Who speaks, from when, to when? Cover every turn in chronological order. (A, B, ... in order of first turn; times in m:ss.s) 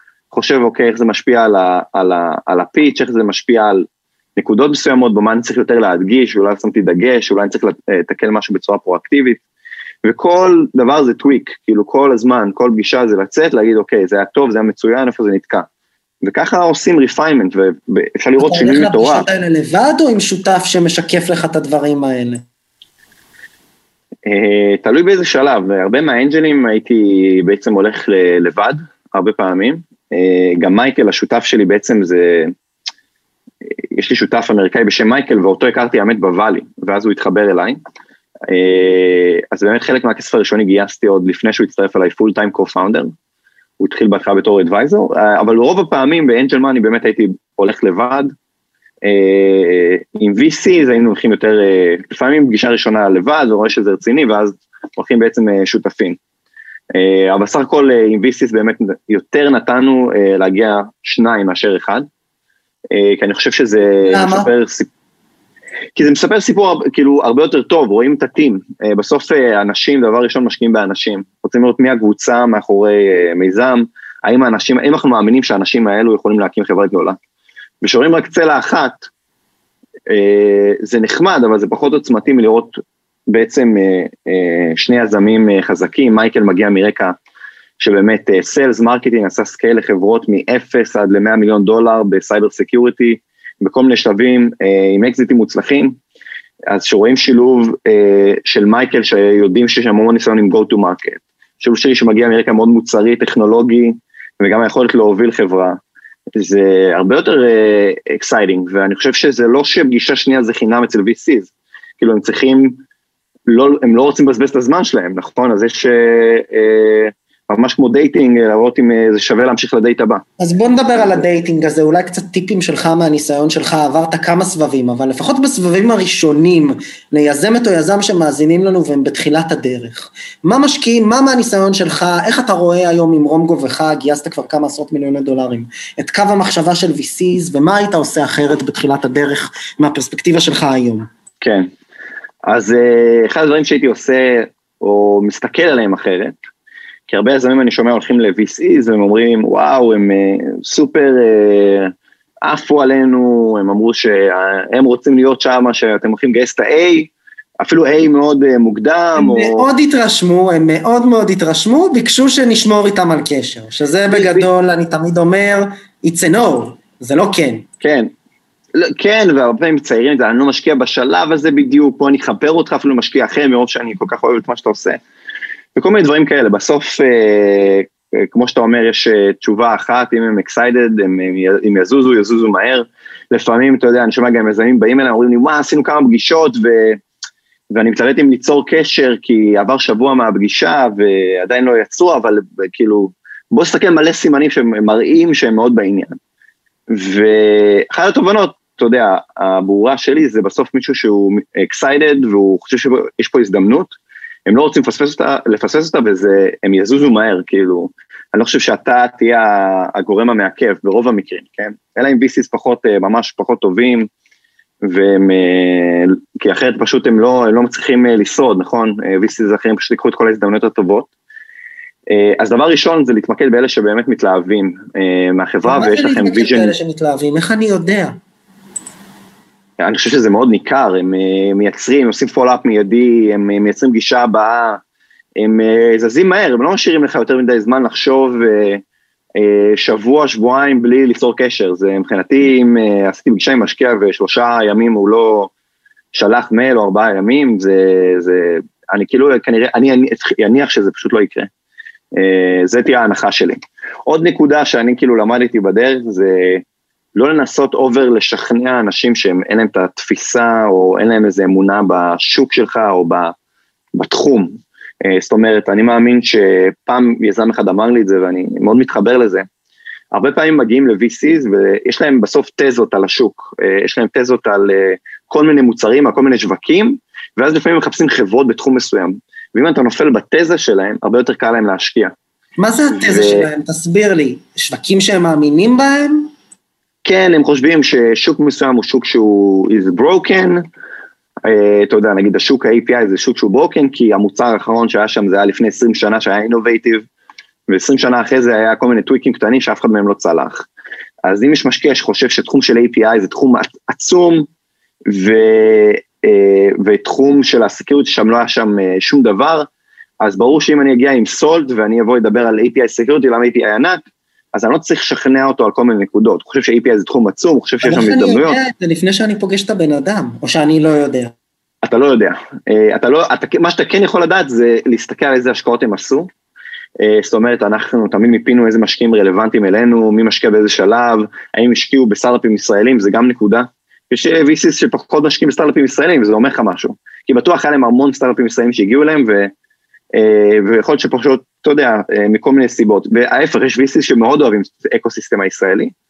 0:00.3-0:09.4 A
0:10.0-0:15.7 A
0:16.2-0:19.2 A
0:18.4-0:22.4 B
0:24.2-0:32.5 A
0:33.7-0:37.8 A
0:38.5-0:43.1 A
0:43.8-0:48.3 A
0:49.0-0:56.2 A
0:56.9-1:02.1 A
1:02.9-1:04.9 A
1:04.0-1:04.5 B
1:05.9-1:17.2 A
1:17.8-1:19.1 A
1:20.1-1:22.8 A
1:23.3-1:27.1 A
1:27.8-1:36.0 A
1:36.7-1:45.8 A
1:46.4-1:52.8 A
1:53.5-2:00.2 A
2:00.4-2:21.1 B
2:21.4-2:21.7 A
2:22.5-2:26.4 A
2:27.1-2:31.9 A
2:32.4-2:39.6 A
2:39.2-2:47.6 B
2:44.1-2:44.5 A
2:47.8-2:48.1 A
2:48.8-2:55.0 A
2:55.7-3:07.0 A
3:07.7-3:16.2 A
3:16.9-3:23.9 A
3:24.5-3:34.1 A
3:34.8-3:41.1 A
3:42.1-3:46.8 A
3:45.6-3:48.2 B
3:49.8-3:54.8 A
3:55.4-3:58.8 A
3:59.4-4:05.5 A
4:06.1-4:11.5 A
4:12.1-4:16.6 A
4:17.1-4:23.3 A
4:23.9-4:29.4 A
4:30.1-4:42.1 A
4:42.6-4:46.3 B
4:42.9-4:43.5 A
4:47.0-4:50.6 A
4:51.4-4:57.0 A
4:57.7-5:00.6 A
5:01.2-5:04.5 A
5:05.1-5:09.7 A
5:10.2-5:14.0 A
5:14.5-5:18.6 A
5:17.8-5:21.3 B
5:21.8-5:26.3 A
5:27.0-5:39.5 A
5:40.1-5:45.9 A